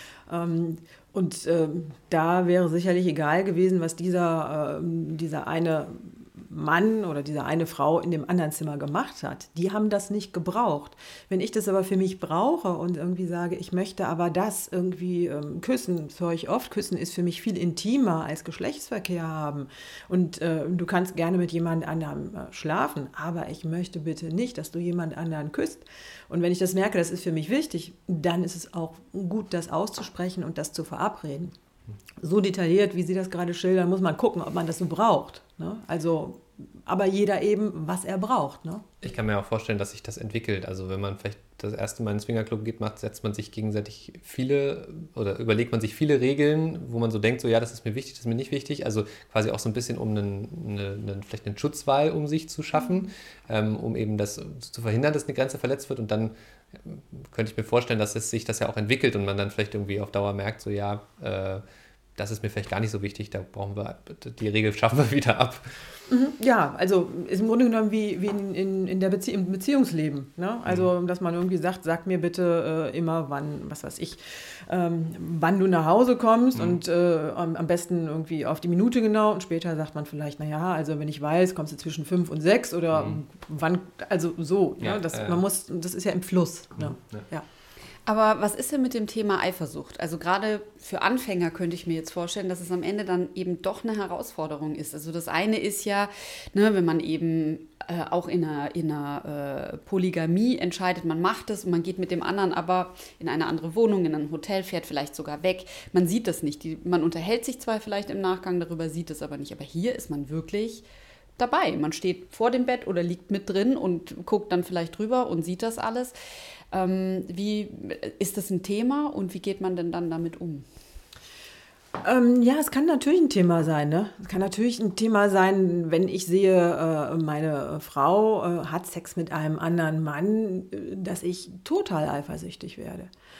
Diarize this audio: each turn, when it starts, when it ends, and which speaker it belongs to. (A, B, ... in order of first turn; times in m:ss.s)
0:00.3-0:31.5 A
0:32.2-0:38.9 A
0:39.0-1:01.6 B
1:02.2-1:05.9 B
1:06.1-1:27.4 A
1:16.5-1:16.8 B
1:22.9-1:23.2 B
1:24.8-1:25.4 B
1:26.8-1:27.2 B
1:28.0-1:50.8 C
1:51.4-1:56.1 C
1:56.7-2:00.6 C
2:02.0-2:13.1 A